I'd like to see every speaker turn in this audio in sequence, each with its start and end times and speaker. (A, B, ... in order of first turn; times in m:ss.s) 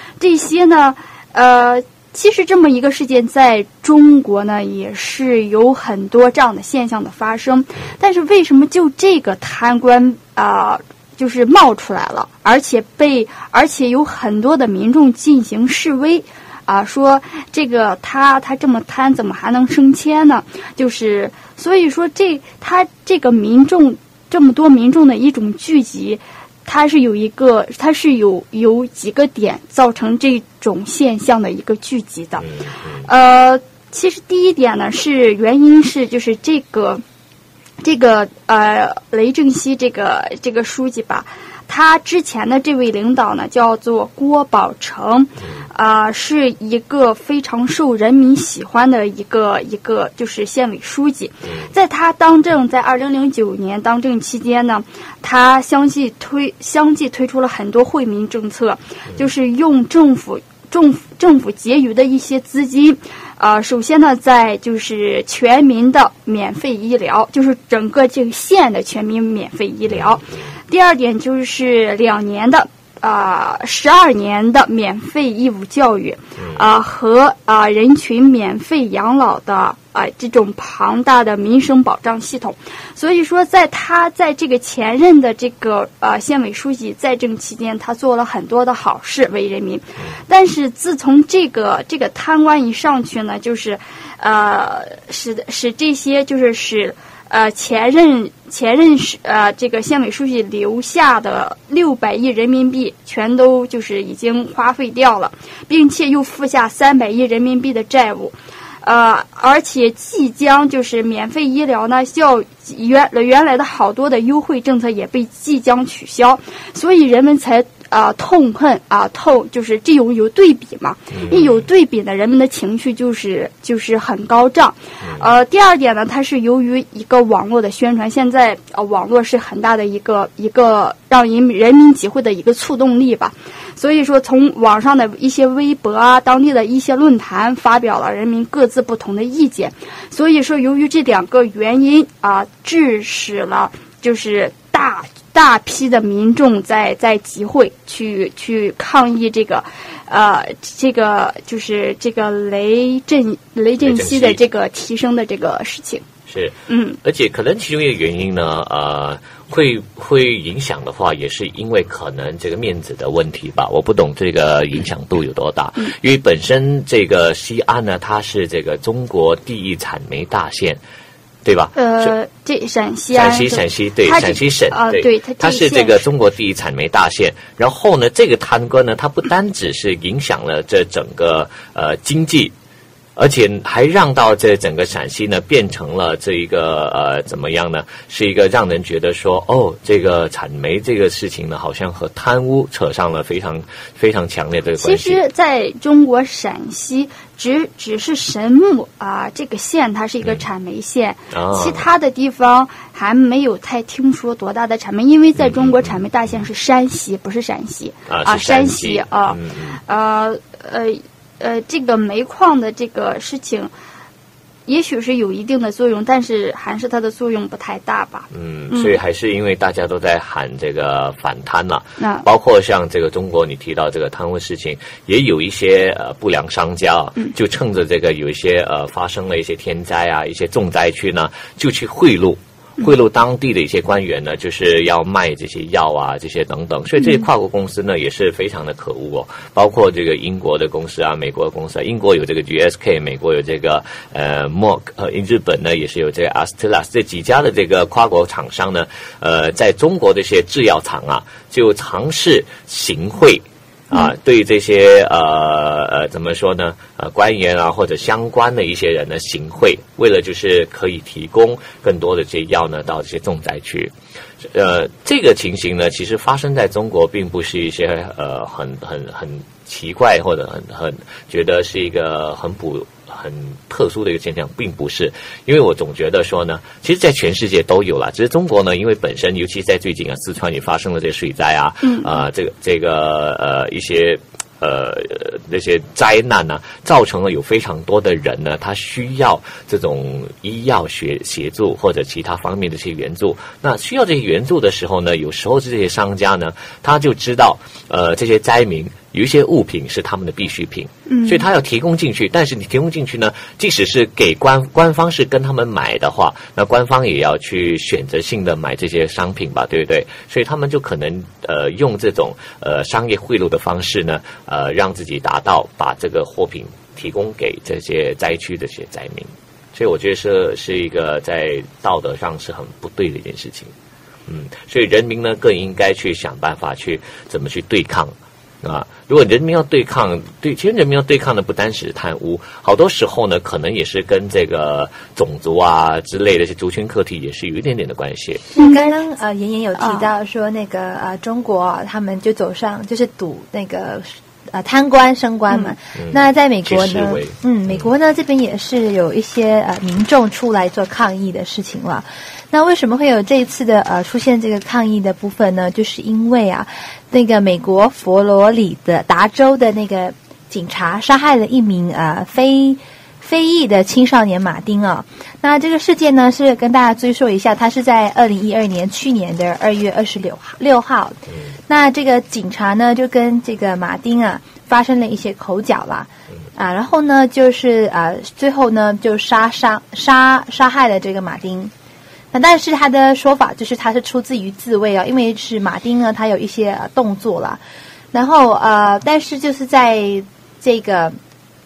0:00.2-0:32.4 A
0:32.4-0:33.0 B
0:33.0-0:37.0 A
0:37.8-2:36.1 A
1:09.9-1:10.4 B
2:01.1-2:01.6 B
2:33.8-2:34.4 B
2:36.3-2:50.8 B
2:36.7-2:37.0 A
2:51.4-2:52.1 B
2:51.8-2:56.0 A
2:53.1-3:02.5 B
3:03.2-3:15.2 B
3:14.8-3:33.7 A
3:21.3-3:21.8 B
3:25.4-3:26.0 B
3:28.1-3:29.8 B
3:34.7-3:39.0 A
3:38.3-4:23.9 B
3:42.0-3:42.3 A
4:24.5-5:23.7 B
4:41.8-4:42.2 A
5:01.1-5:01.4 A
5:24.3-5:38.5 B
5:38.6-6:21.7 C
5:38.6-5:38.9 A
5:39.8-5:40.1 A
5:46.0-5:47.9 B
6:22.3-6:27.6 C
6:28.1-6:31.2 C